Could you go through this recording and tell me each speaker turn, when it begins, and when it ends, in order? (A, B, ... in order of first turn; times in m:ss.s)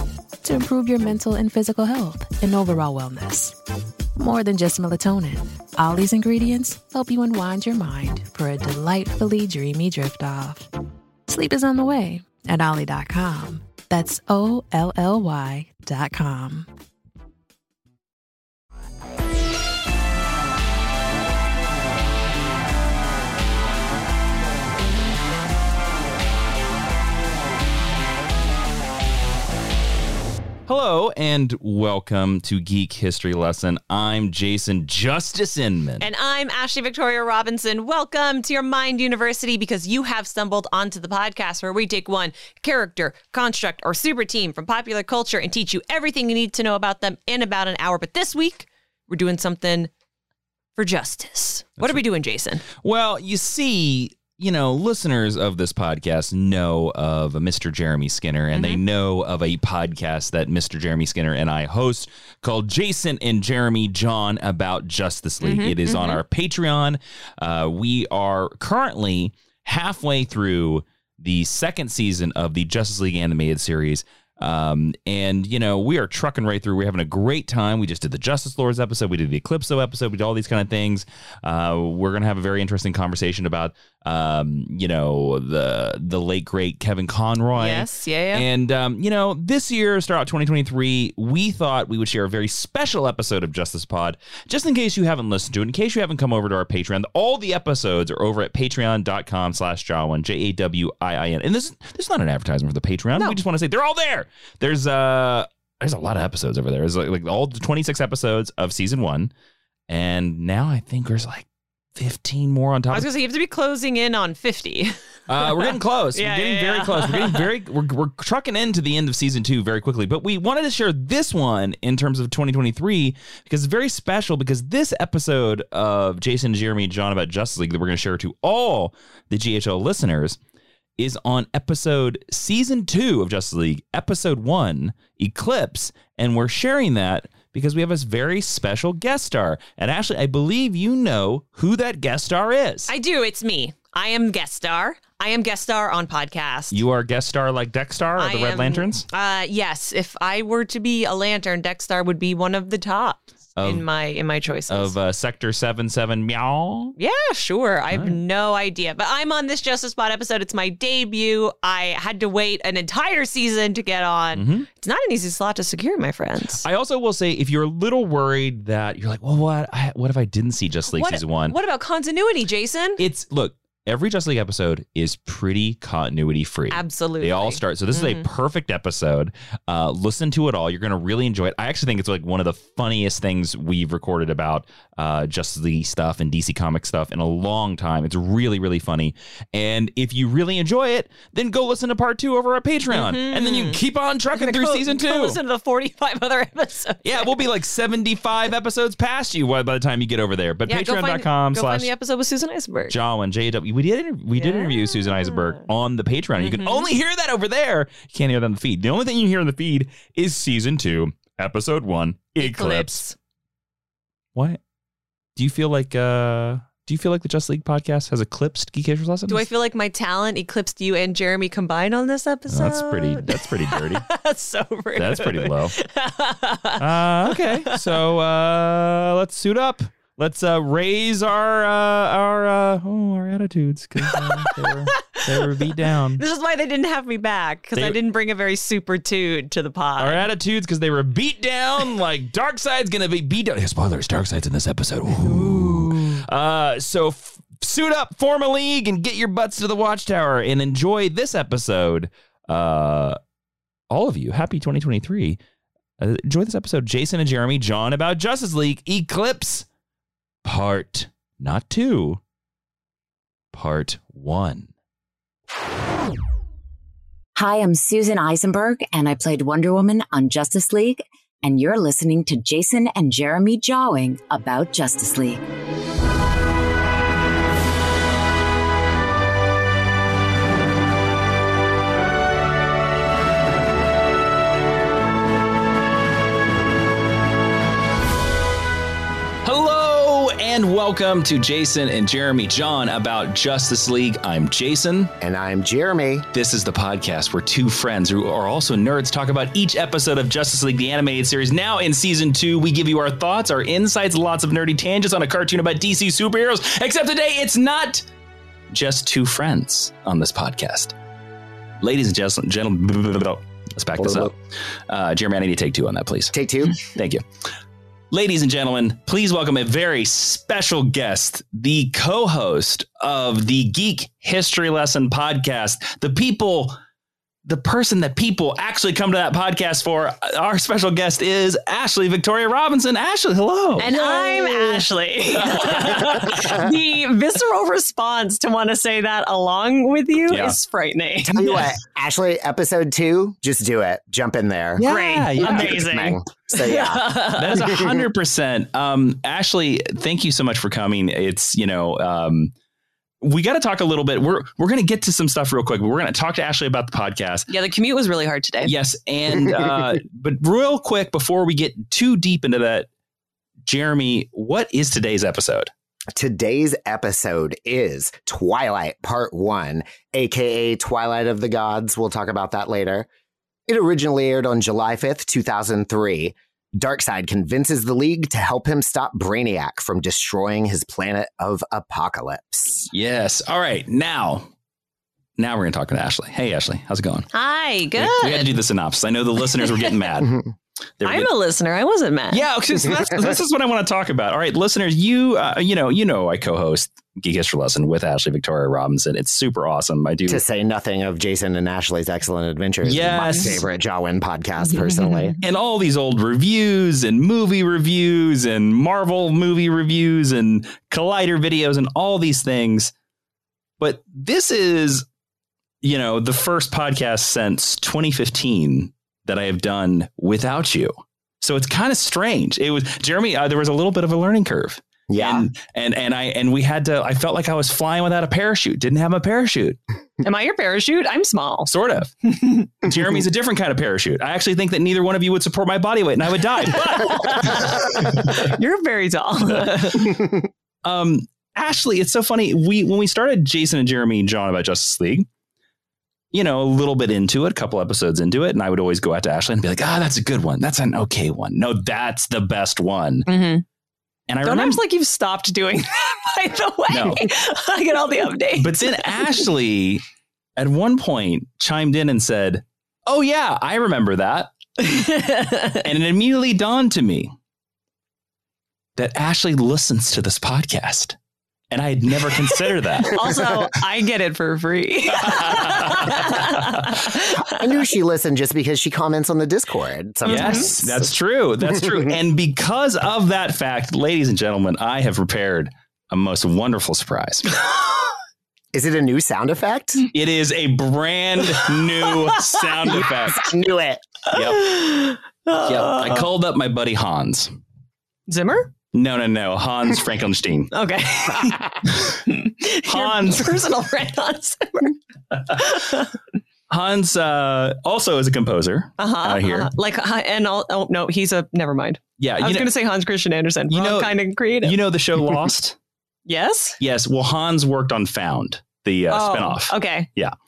0:00.4-0:03.6 A
0:04.2-0:10.7 A
0:11.3-0:16.7 A
0:30.7-0:36.1 B
0:36.0-0:49.9 C
0:50.8-0:52.6 C
0:52.8-1:49.3 B
0:58.5-0:58.8 C
1:05.4-1:06.2 C
1:27.6-1:28.5 C
1:49.9-1:51.4 B
1:52.0-1:53.1 B
1:52.9-1:57.5 C
1:55.3-2:10.4 B
2:11.0-2:22.9 B
2:22.9-2:26.8 C
2:26.7-2:29.0 B
2:28.2-2:34.9 C
2:33.6-2:33.8 B
2:34.7-2:37.0 B
2:37.0-2:46.6 C
2:37.9-2:38.2 B
2:44.4-2:44.7 B
2:46.6-2:51.6 B
2:50.9-2:53.0 C
2:53.0-3:15.4 B
2:56.7-2:58.3 C
3:12.9-3:13.8 C
3:14.4-3:17.4 C
3:17.0-3:21.9 B
3:20.7-3:23.0 C
3:22.9-3:33.0 B
3:24.4-3:25.6 C
3:26.4-3:26.9 C
3:32.4-3:33.2 C
3:35.4-3:39.4 B
3:39.3-3:47.8 C
3:42.5-3:44.0 B
3:45.0-3:45.8 B
3:46.8-3:56.2 B
3:54.1-3:54.5 C
3:55.2-3:55.4 C
3:56.2-4:00.2 C
4:00.0-4:13.2 B
4:05.4-4:05.9 C
4:13.9-4:15.4 B
4:16.0-4:19.7 B
4:20.4-4:22.2 B
4:23.5-4:24.7 B
4:27.4-4:35.4 D
4:49.4-4:55.1 B
4:55.2-4:56.3 E
4:56.3-5:08.0 B
5:08.7-5:10.9 B
5:11.8-5:17.2 B
5:14.0-5:14.3 E
5:16.3-5:16.8 E
5:18.1-5:26.8 B
5:27.5-5:36.2 B
5:33.8-5:41.7 C
5:40.3-5:40.6 B
5:41.3-5:47.1 E
5:44.8-5:46.0 B
5:44.8-5:47.6 C
5:47.4-5:52.5 B
5:53.2-5:57.5 B
5:57.5-5:58.7 C
5:58.6-6:02.9 B
6:03.6-6:05.7 B
6:06.1-6:13.1 E
6:13.7-6:22.9 E
6:22.9-6:24.5 B
6:25.4-6:27.3 B
6:27.3-6:28.5 C
6:28.0-6:30.4 B
6:29.6-6:29.9 C
6:31.0-6:31.3 B
6:31.0-6:32.4 C
6:32.3-6:40.4 B
6:40.3-6:45.4 E
6:42.8-6:43.6 B
6:45.0-6:45.3 C
6:45.4-6:52.9 B
6:53.8-6:55.0 B
6:55.8-7:09.8 B
7:05.1-7:05.5 E
7:10.2-7:11.7 C
7:11.7-7:12.1 B
7:12.3-7:12.7 C
7:12.8-7:18.2 B
7:16.6-7:20.2 C
7:20.8-7:25.3 B
7:26.3-7:33.3 B
7:33.3-7:33.6 C
7:34.3-7:34.8 B
7:34.4-7:39.4 C
7:36.9-7:37.3 B
7:38.6-7:40.0 B
7:40.6-7:44.5 B
7:44.8-7:45.8 C
7:45.8-7:47.3 B
7:49.0-7:51.2 B
7:51.7-7:53.3 B
7:53.1-7:57.6 C
7:55.1-7:56.5 B
7:57.5-8:01.1 E
8:00.2-8:00.7 C
8:00.3-8:07.5 B
8:01.7-8:02.1 E
8:08.7-8:10.1 E
8:10.1-8:13.5 B
8:12.9-8:14.0 E
8:14.3-8:14.9 B
8:14.6-8:16.3 C
8:15.6-8:17.6 B
8:18.3-8:18.7 C
8:18.9-8:20.7 B
8:20.7-8:25.0 C
8:22.9-8:23.6 B
8:25.5-8:26.1 C
8:26.7-8:29.7 B
8:29.0-8:34.8 C
8:32.2-8:32.7 B
8:33.7-8:35.8 B
8:36.3-8:36.8 C
8:36.8-8:40.3 B
8:39.1-8:40.1 C